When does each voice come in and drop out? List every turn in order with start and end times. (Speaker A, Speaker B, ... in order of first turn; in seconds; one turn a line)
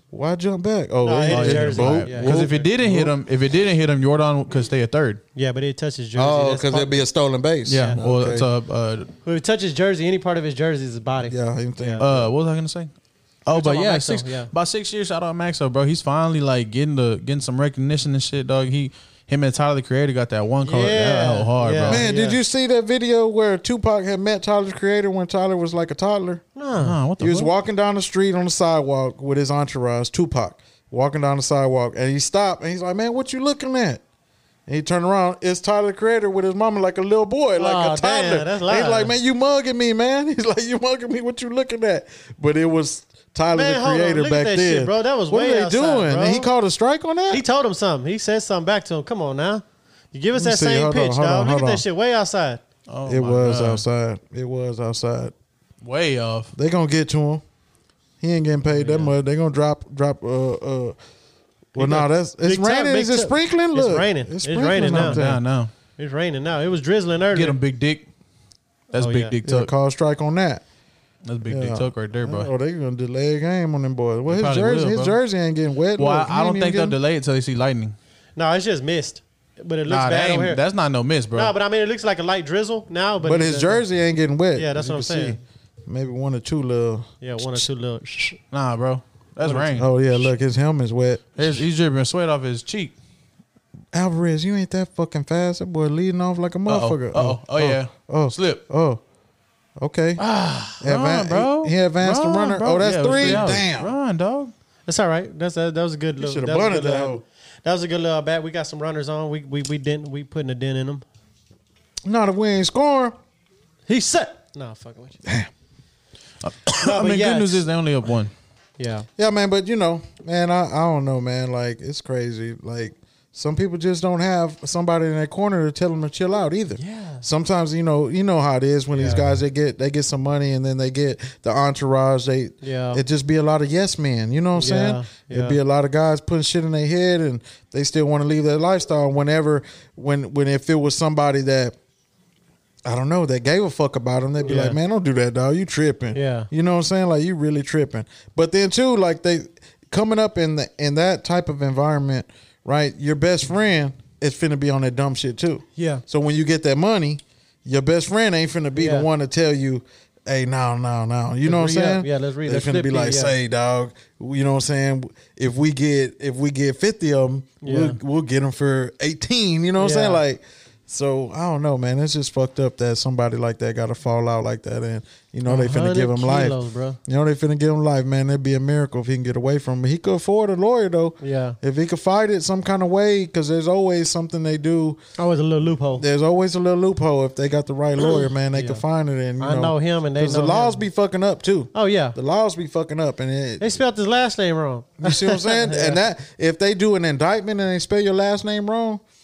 Speaker A: 0.1-3.1
Speaker B: 1.0-2.7
Speaker C: 1.3-5.2
Speaker B: 5.3-7.0
Speaker A: 6.2-8.4
Speaker C: 7.7-9.1
Speaker B: 7.7-8.0
Speaker B: 9.2-12.0
Speaker A: 11.2-12.3
Speaker C: 12.0-12.9
Speaker C: 13.4-22.0
Speaker B: 13.5-14.5
Speaker B: 20.6-22.4
Speaker A: 21.9-26.4
Speaker B: 26.6-27.0
Speaker C: 26.8-27.5
Speaker A: 27.2-34.0
Speaker A: 34.7-47.4
Speaker B: 37.6-39.1
Speaker B: 43.5-46.5
Speaker B: 47.3-52.6
Speaker A: 50.3-51.8
Speaker C: 52.9-53.8
Speaker A: 53.1-55.3
Speaker C: 55.8-56.5
Speaker A: 56.5-57.4
Speaker A: 58.2-61.0
Speaker B: 58.7-59.1
Speaker B: 61.7-65.2
Speaker A: 61.7-65.4
Speaker C: 64.8-65.7
Speaker B: 66.0-67.6
Speaker C: 67.3-68.1
Speaker C: 68.9-69.7
Speaker B: 68.9-69.4
Speaker A: 69.4-70.6
Speaker C: 71.2-72.5
Speaker A: 71.5-77.0
Speaker C: 74.3-75.2
Speaker C: 76.0-77.9
Speaker B: 78.3-80.6
Speaker C: 79.9-81.5
Speaker B: 81.3-83.8
Speaker A: 83.2-88.3
Speaker B: 84.5-85.4
Speaker B: 87.2-88.3
Speaker C: 88.5-90.2
Speaker A: 89.4-91.6
Speaker C: 91.4-92.9
Speaker A: 93.9-99.0
Speaker C: 96.7-98.6
Speaker A: 99.8-100.2
Speaker C: 100.2-104.5
Speaker A: 100.8-103.9
Speaker B: 103.2-103.5
Speaker B: 104.9-111.0
Speaker A: 106.2-107.2
Speaker A: 112.0-113.2
Speaker B: 113.9-115.2
Speaker C: 116.4-118.3
Speaker B: 116.8-117.6
Speaker B: 118.8-119.1
Speaker A: 119.2-141.7
Speaker B: 126.8-127.2
Speaker B: 128.9-129.2
Speaker B: 132.6-133.0
Speaker B: 134.6-135.6
Speaker A: 142.8-185.0
Speaker B: 144.4-144.8
Speaker B: 146.1-146.5
Speaker B: 155.8-156.0
Speaker B: 158.8-159.1
Speaker B: 161.4-163.3
Speaker B: 167.6-168.0
Speaker B: 169.8-170.2
Speaker B: 175.4-177.0
Speaker B: 181.2-181.6
Speaker B: 185.2-186.0
Speaker A: 186.0-193.7
Speaker B: 188.5-188.8
Speaker B: 189.4-190.8
Speaker B: 191.7-192.2
Speaker B: 193.6-196.0
Speaker A: 195.0-199.0